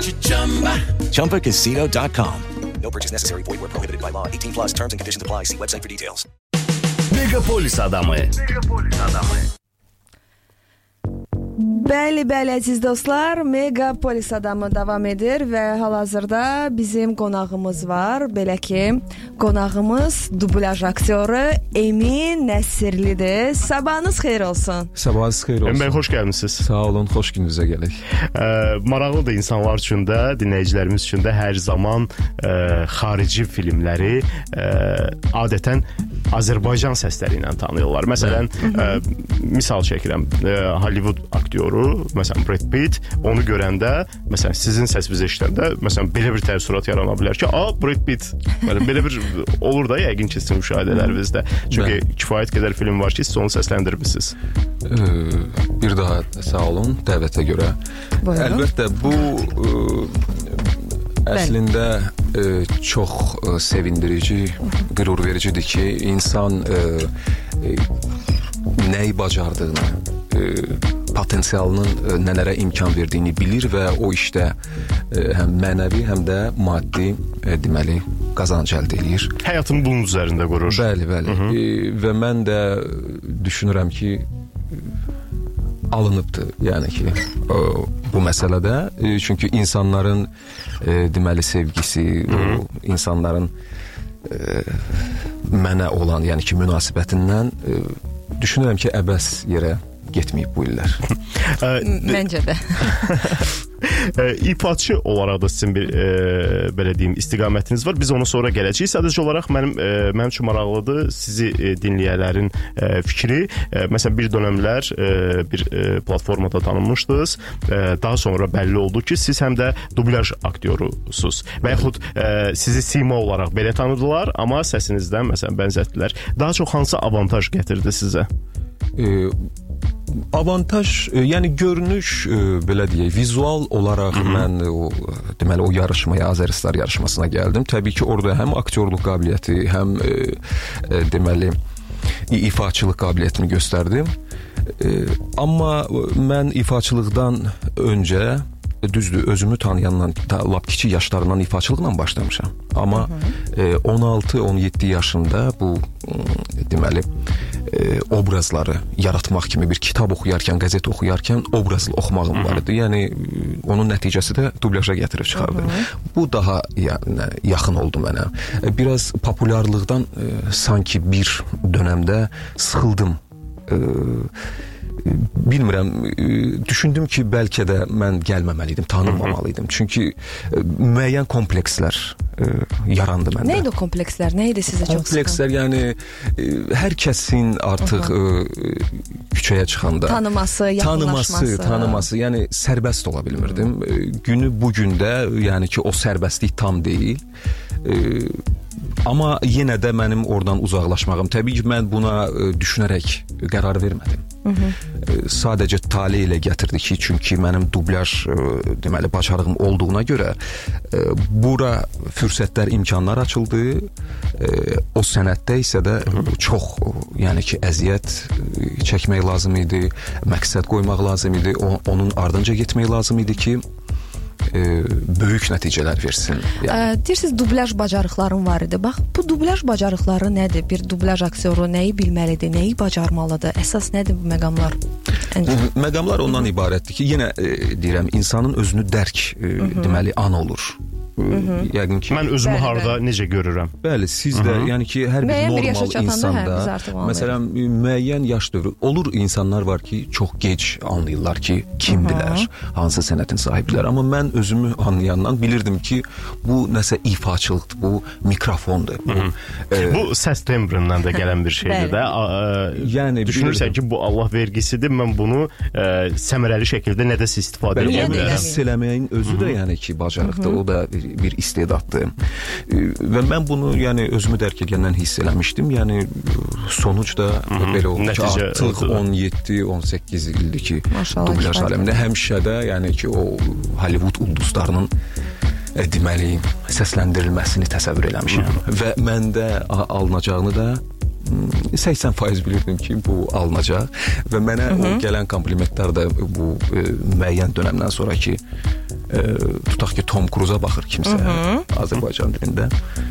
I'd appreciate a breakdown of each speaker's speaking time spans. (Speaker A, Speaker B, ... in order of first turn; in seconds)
Speaker A: 1.0-6.2
Speaker B: 7.1-9.3
Speaker C: 11.6-24.9, 38.6-39.0, 58.2-58.7, 101.8-103.0, 152.9-153.3, 165.3-165.9, 183.4-185.4, 187.8-188.1, 190.1-192.1, 193.4-193.7, 204.4-204.8, 226.6-234.8, 235.3-235.6, 239.6-240.0, 241.3-241.7, 242.4-242.9, 245.2-247.4, 251.9-252.5, 261.6-261.9, 267.8-268.6, 270.2-270.6, 280.9-281.9, 294.7-295.0, 301.0-301.7
Speaker D: 24.9-26.0, 26.6-28.0, 51.7-52.0, 54.8-57.8, 58.3-67.9, 68.7-74.5, 75.1-79.4, 80.7-84.8, 85.9-90.3, 90.8-93.5, 94.2-101.0, 128.9-129.3, 130.1-141.6, 142.3-144.1, 144.7-157.1, 157.6-174.3, 175.0-183.7, 184.8-190.2, 190.8-197.2, 197.8-198.4, 199.0-204.2, 205.0-210.4, 210.9-223.6, 224.5-226.9, 235.4-242.3, 243.8-260.1, 262.8-263.8, 267.7-272.1, 272.7-284.9, 285.7-298.4, 299.1-302.7
Speaker E: 25.6-26.6, 28.3-54.4, 79.4-81.5, 92.3-92.6, 101.4-102.2, 102.8-128.3, 134.1-134.5, 162.3-162.6, 179.1-179.3, 242.1-243.8, 244.3-244.7, 259.1-268.4, 269.2-269.6, 277.5-279.0